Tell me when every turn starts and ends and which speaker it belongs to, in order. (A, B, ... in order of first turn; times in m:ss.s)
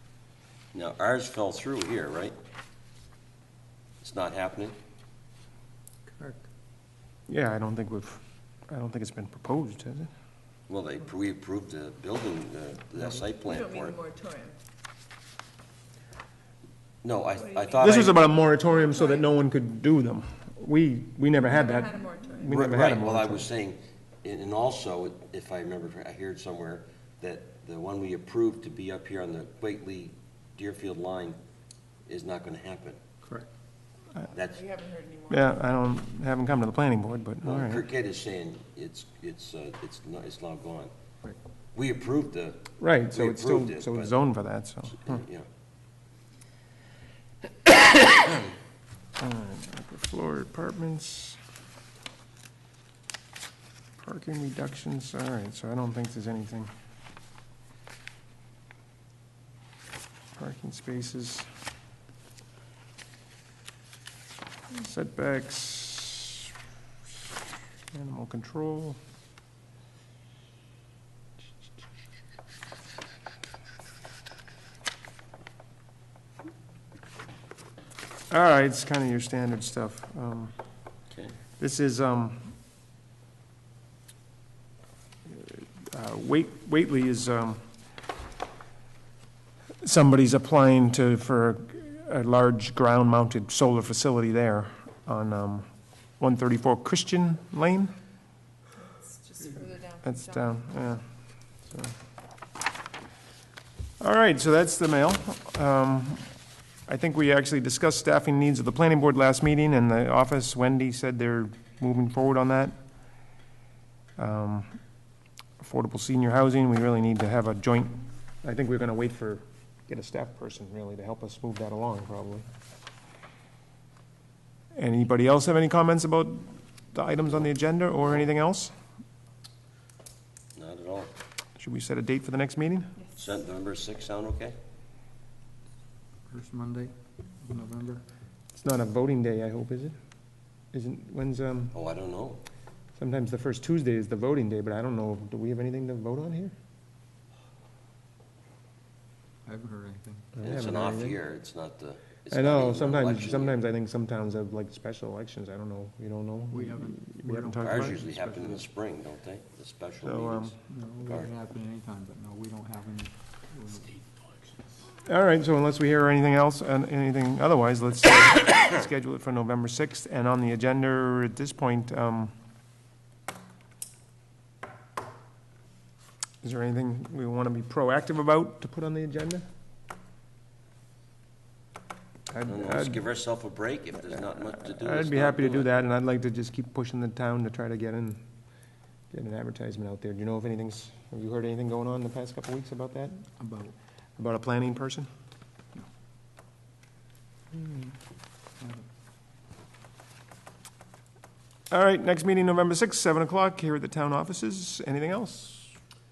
0:00.7-0:02.3 A
0:04.0-0:04.8 A
0:06.1-0:06.4 B
0:07.3-0:10.1 C
0:10.7-0:14.0 A
0:13.5-0:14.6 D
0:17.0-0:18.2 A
0:17.8-0:23.5 C
0:21.6-0:22.5 D
0:22.4-0:31.4 A
0:32.1-0:33.0 A
0:34.3-0:34.7 A
0:34.6-0:35.3 D
0:35.3-0:37.8 C
0:37.4-0:40.9 A
0:41.7-0:44.2 A
0:42.8-0:45.2 C
0:44.9-0:45.4 A
0:49.2-0:51.4 C
0:54.0-0:56.7 C
1:00.4-1:01.5 C
1:04.7-1:06.5 C
1:07.9-1:09.0 C
1:18.3-1:20.5 C
1:21.1-1:21.4 A
1:21.6-1:22.5 C
1:25.3-1:27.6 C
1:29.8-1:35.7 C
1:36.2-1:37.9 C
1:38.8-1:40.0 D
1:40.0-1:41.0 C
1:41.7-1:41.9 C
1:44.0-1:46.3 C
1:46.9-1:52.8 C
1:54.2-1:54.8 C
1:55.6-2:02.4 C
2:04.8-2:08.7 C
2:10.5-2:11.1 A
2:11.6-2:13.0 C
2:13.1-2:14.5 A
2:16.3-2:18.0 B
2:18.5-2:19.9 C
2:20.7-2:21.7 C
2:21.7-2:22.4 A
2:23.0-2:26.5 C
2:29.4-2:30.4 B
2:30.4-2:31.2 C
2:30.4-2:33.6 A
2:32.3-2:38.0 C
2:36.5-2:38.6 B
2:37.6-2:41.3 A
2:40.0-2:40.6 C
2:40.7-2:44.6 B
2:45.0-2:52.3 C
2:56.4-2:59.4 C
3:02.3-3:03.0 C
3:02.4-3:05.7 A
3:04.2-3:08.2 C
3:09.1-3:13.3 C
3:13.4-3:13.7 B
3:14.2-3:15.1 C
3:18.6-3:18.8 B
3:21.7-3:25.8 C